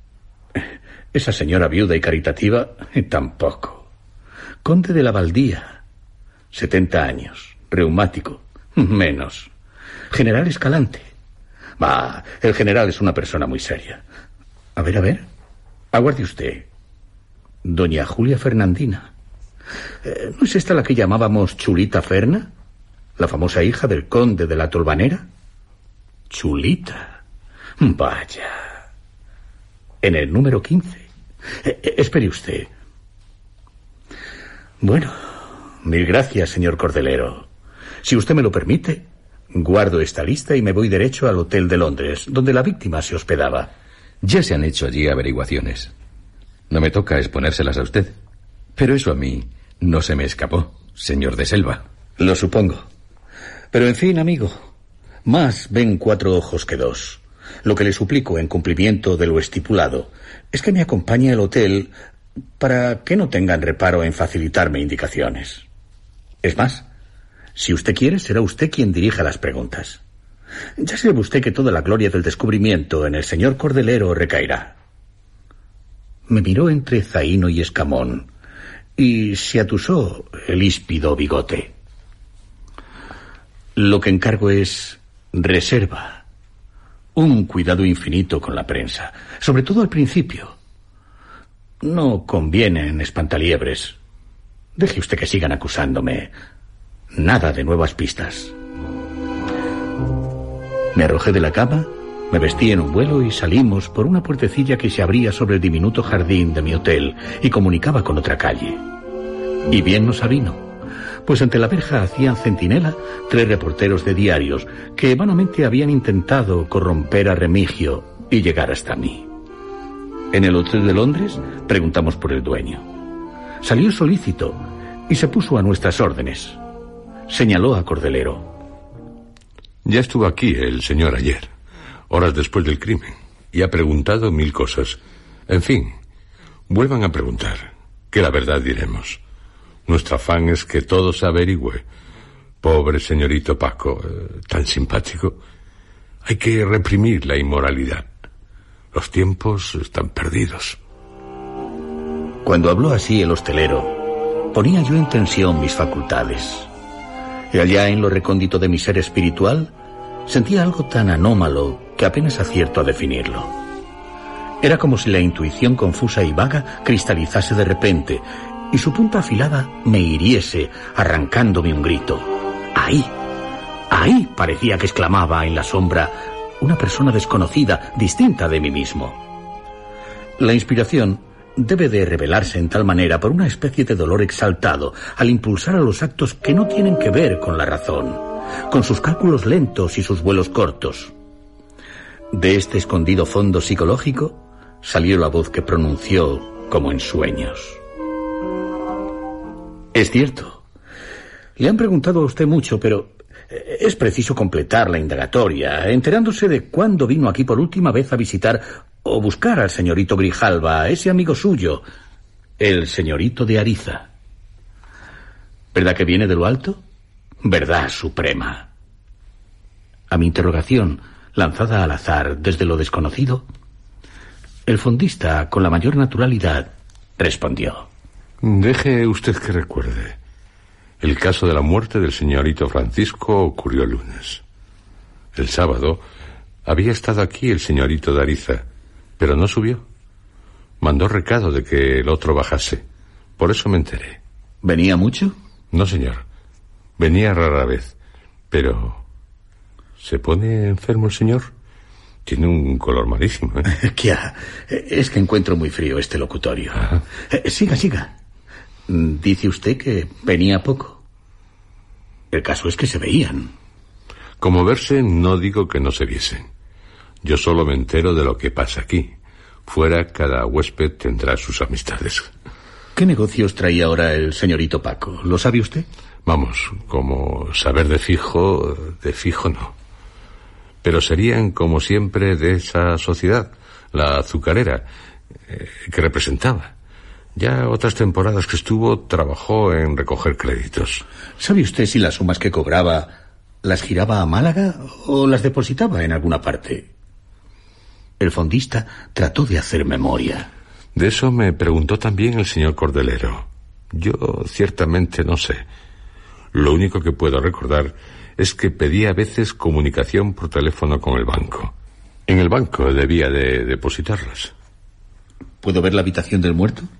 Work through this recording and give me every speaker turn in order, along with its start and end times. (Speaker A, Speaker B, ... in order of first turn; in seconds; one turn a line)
Speaker A: 1.1-3.8
Speaker A: 4.6-5.8
Speaker A: 6.5-9.5
Speaker A: 10.1-11.1
Speaker A: 11.8-14.0
Speaker A: 14.8-15.3
Speaker A: 15.9-16.7
Speaker A: 17.6-19.1
Speaker A: 20.0-22.5
Speaker A: 23.2-25.3
Speaker A: 26.3-27.2
Speaker A: 27.8-28.6
Speaker A: 30.0-31.1
Speaker A: 31.6-32.7
Speaker A: 34.8-35.1
Speaker A: 35.8-37.5
Speaker A: 38.0-43.7
Speaker B: 44.2-45.9
Speaker B: 46.7-48.1
Speaker B: 48.8-51.8
Speaker A: 52.2-52.9
Speaker A: 53.7-54.6
Speaker A: 55.2-61.9
Speaker A: 62.6-65.6
Speaker A: 66.4-66.8
Speaker A: 67.5-70.0
Speaker A: 70.8-74.8
Speaker A: 76.3-78.3
Speaker A: 79.0-81.7
Speaker A: 83.8-86.2
Speaker A: 87.1-90.5
Speaker A: 91.8-94.0
Speaker A: 94.8-96.3
Speaker A: 97.1-98.5
Speaker A: 100.9-108.8
Speaker A: 109.7-110.6
Speaker A: 111.2-119.3
Speaker A: 120.3-122.8
Speaker A: 123.6-126.6
Speaker A: 127.3-128.5
Speaker C: 129.8-131.5
Speaker C: 132.1-135.9
Speaker C: 136.7-139.2
Speaker C: 139.9-141.8
Speaker C: 142.6-145.4
Speaker C: 146.2-148.0
Speaker C: 148.9-150.8
Speaker A: 152.4-153.9
Speaker A: 154.5-156.7
Speaker A: 157.5-159.7
Speaker A: 160.3-163.5
Speaker A: 164.6-173.1
Speaker A: 173.9-179.2
Speaker A: 180.4-191.1
Speaker A: 192.3-197.8
Speaker A: 199.9-200.6
Speaker A: 201.6-211.8
Speaker A: 212.6-214.1
Speaker A: 215.7-216.8
Speaker A: 217.4-218.7
Speaker A: 220.1-223.5
Speaker A: 224.7-227.9
Speaker C: 228.4-230.2
Speaker C: 231.0-234.4
Speaker C: 235.3-236.0
Speaker C: 236.6-238.7
Speaker C: 239.2-239.8
Speaker C: 240.8-242.8
Speaker C: 243.4-244.2
Speaker A: 244.6-245.3
Speaker C: 245.7-246.2
Speaker C: 247.0-247.9
Speaker C: 248.5-249.0
Speaker C: 250.0-251.5
Speaker C: 252.2-253.7
Speaker A: 253.8-258.1
Speaker A: 258.9-261.0
Speaker A: 262.3-263.5
Speaker C: 264.4-266.5
Speaker C: 267.2-269.1
Speaker C: 269.7-272.3
Speaker A: 272.9-275.9
Speaker C: 276.2-279.7
Speaker C: 280.8-284.8
Speaker C: 285.5-286.7
Speaker C: 287.4-291.0
Speaker A: 291.4-296.9
Speaker A: 298.2-300.5
Speaker C: 300.9-305.6
Speaker C: 306.5-311.7
Speaker C: 312.3-314.5
Speaker A: 315.6-316.9